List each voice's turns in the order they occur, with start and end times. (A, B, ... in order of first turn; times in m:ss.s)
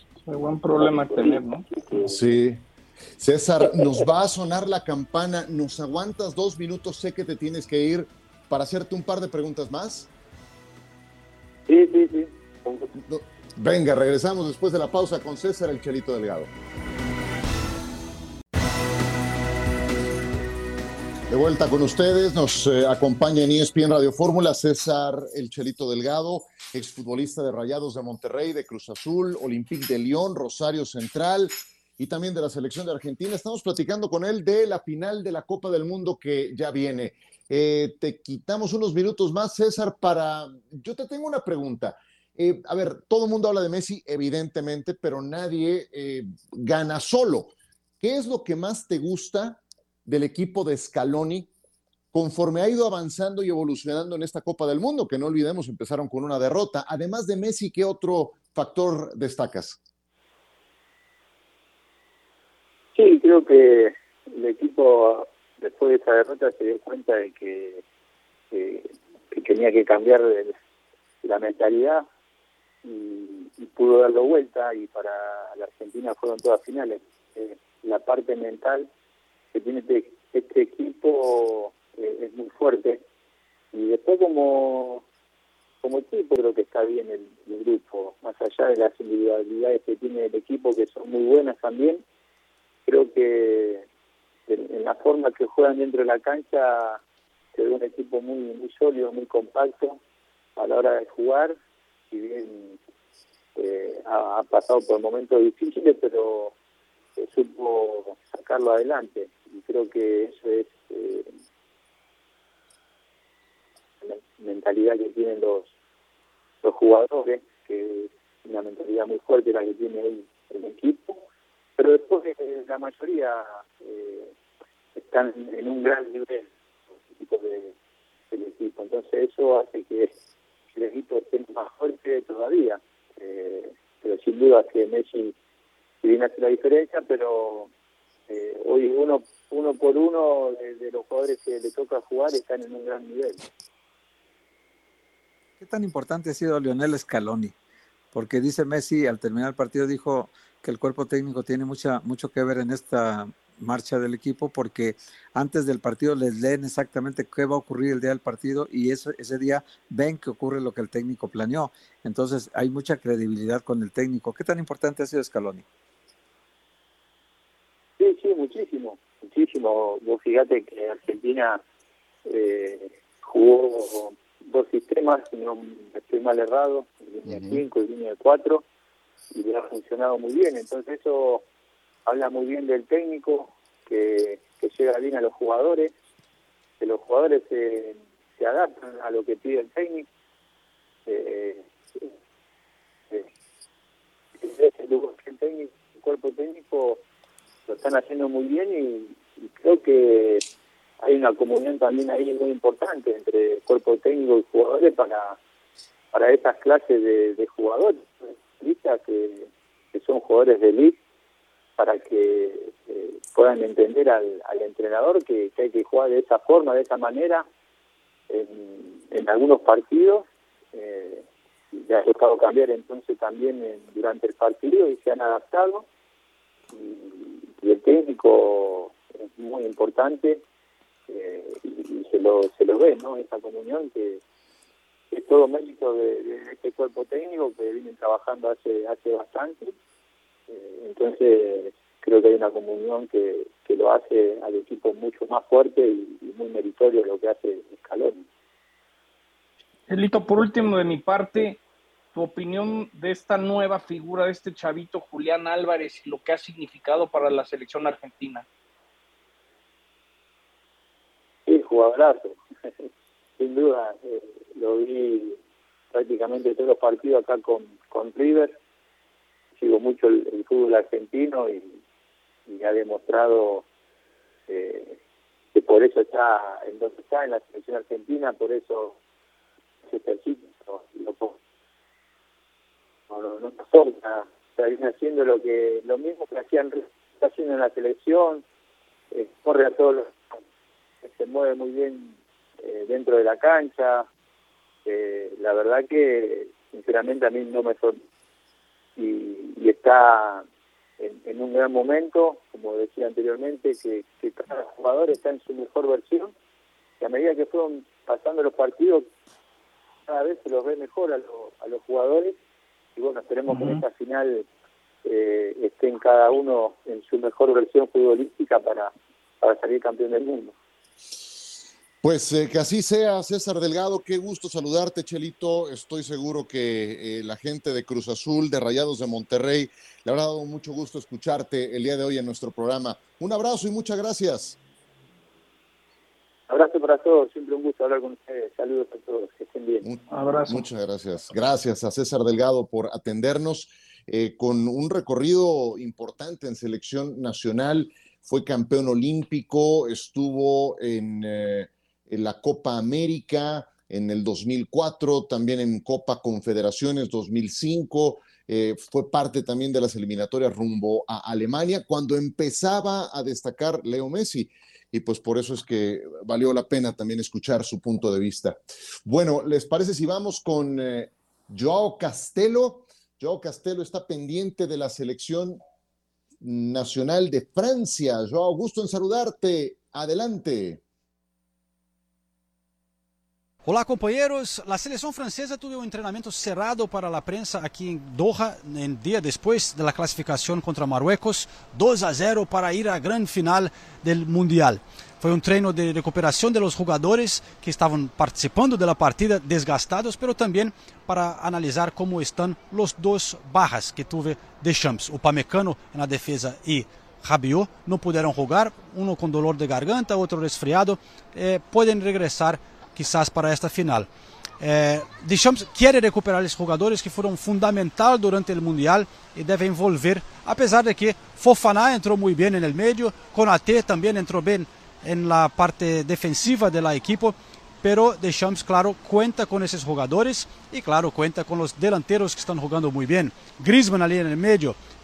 0:00.2-0:01.6 A
0:00.8-0:02.2 B
0:02.1-0:02.6 C
0:03.2-0:10.1 C
0:11.7-0:12.9 B
0:13.0-0:16.5 C
0:21.3-0:51.5 C
0:52.1-0:59.8 C
1:03.0-1:07.8 B
1:08.5-1:10.5 B
1:11.2-1:12.0 B
1:12.8-1:18.9 B
1:19.5-1:23.0 B
1:23.7-1:25.0 B
1:25.8-1:32.0 B
1:32.9-1:33.8 B
1:34.5-1:37.0 B
1:37.5-1:40.0 B
1:40.6-1:41.6 B
1:42.1-1:42.8 B
1:43.6-1:46.6 B
1:47.2-1:51.3 B
1:54.0-1:55.7 B
1:56.6-2:01.2 B
2:01.8-2:04.3 B
2:04.9-2:06.5 B
2:07.2-2:07.7 B
2:08.3-2:10.1 B
2:10.7-2:15.3 B
2:16.0-2:17.7 B
2:18.3-2:23.4 B
2:25.6-2:27.5 D
2:28.1-2:45.6 D
2:48.0-2:51.6 B
2:52.2-2:58.6 B
2:57.2-2:57.6 C
2:59.3-3:01.4 B
3:02.1-3:05.9 B
3:06.8-3:10.1 B
3:11.1-3:12.1 B
3:14.4-3:17.0 B
3:17.7-3:20.4 B
3:21.0-3:25.4 B
3:26.1-3:31.0 B
3:31.8-3:37.4 B
3:38.3-3:45.9 B
3:46.7-3:50.4 B
3:51.1-3:54.2 B
3:55.1-3:59.7 B
4:00.5-4:08.2 B
4:09.9-4:11.6 A
4:12.1-4:18.4 A
4:21.5-4:22.4 B
4:23.4-4:25.4 B
4:25.9-4:28.6 B
4:29.6-4:31.8 B
4:32.5-4:33.6 B
4:34.5-4:35.0 B
4:35.5-4:39.0 B
4:39.9-4:41.4 B
4:43.1-4:48.4 B
4:49.1-4:50.4 B
4:51.0-4:54.1 B
4:54.9-4:58.0 B
4:59.0-5:00.4 B
5:01.0-5:06.3 B
5:07.0-5:09.1 B
5:10.1-5:12.4 B
5:13.0-5:14.4 B
5:13.5-5:13.8 A
5:15.0-5:20.6 B
5:22.0-5:34.6 C
5:36.5-5:39.9 B
5:39.8-6:15.6 C
5:40.1-5:40.6 A
6:16.4-6:20.8 C
6:23.6-6:54.1 E
6:54.6-7:14.8 E